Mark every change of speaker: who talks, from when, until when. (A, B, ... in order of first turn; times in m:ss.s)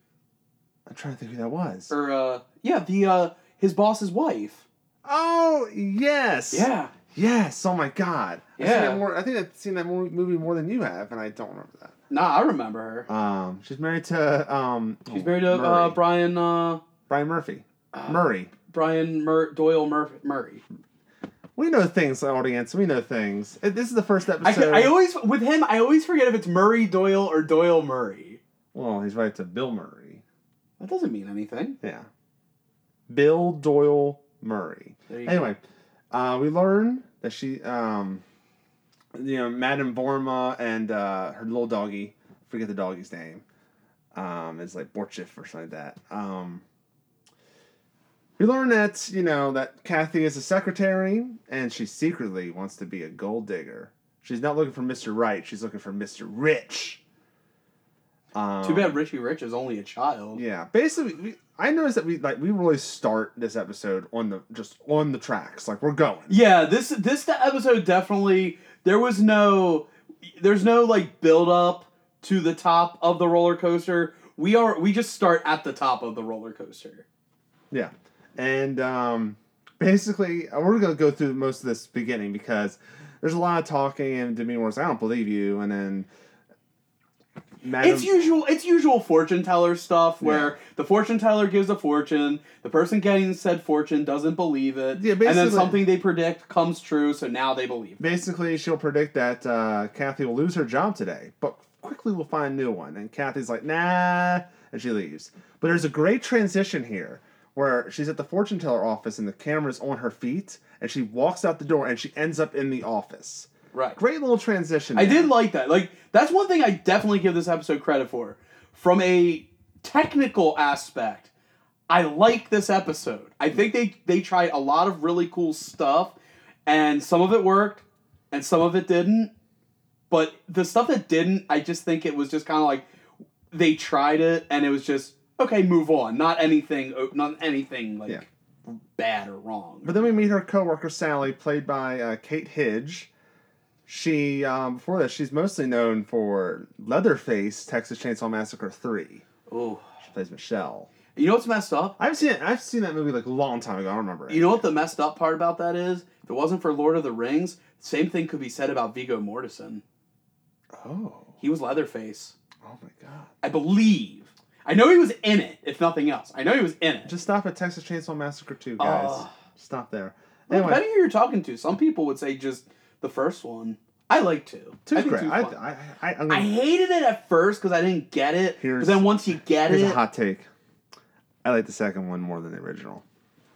0:00.9-0:01.9 A
0:01.9-0:04.7 B
0:05.0-0:11.9 A
0:06.5-0:06.9 B
0:08.6-0:09.0 B
0:12.1-0:13.1 B
0:13.1-0:16.0 A
0:15.1-0:16.8 B
0:17.1-0:18.5 A
0:17.9-0:20.6 B
0:21.6-0:24.9 A
0:24.4-0:28.4 B
0:28.7-0:30.2 A
0:30.8-0:31.8 B
0:31.8-0:32.1 A
0:33.1-0:35.6 A
0:35.1-0:35.5 B
0:36.1-0:38.2 A
0:39.1-0:43.4 A
0:44.1-0:46.6 A
0:48.4-0:57.0 A
0:58.3-0:59.0 A
0:58.6-1:00.4 B
1:00.4-1:06.4 A
1:06.3-1:17.0 B
1:17.7-1:26.1 A
1:27.6-1:28.2 A
1:27.8-1:38.2 B
1:30.2-1:30.6 A
1:35.0-1:35.8 A
1:38.0-1:55.3 A
1:53.7-1:54.0 B
1:55.0-2:01.3 B
2:01.9-2:06.2 B
2:06.7-2:09.3 B
2:10.1-2:12.8 B
2:13.5-2:20.1 B
2:19.8-2:23.1 A
2:23.9-2:29.2 A
2:29.5-2:29.8 B
2:30.0-2:30.9 A
2:31.2-2:32.0 B
2:32.0-2:34.7 A
2:34.3-2:39.8 B
2:40.7-2:41.4 A
2:41.4-2:42.4 B
2:42.6-2:43.3 A
2:43.4-2:47.1 B
2:47.1-2:50.8 A
2:48.8-2:49.3 B
2:50.5-2:55.6 B
2:54.9-2:56.5 A
2:56.3-3:00.0 B
2:58.6-2:59.0 A
2:59.7-3:00.5 A
3:01.4-3:03.0 A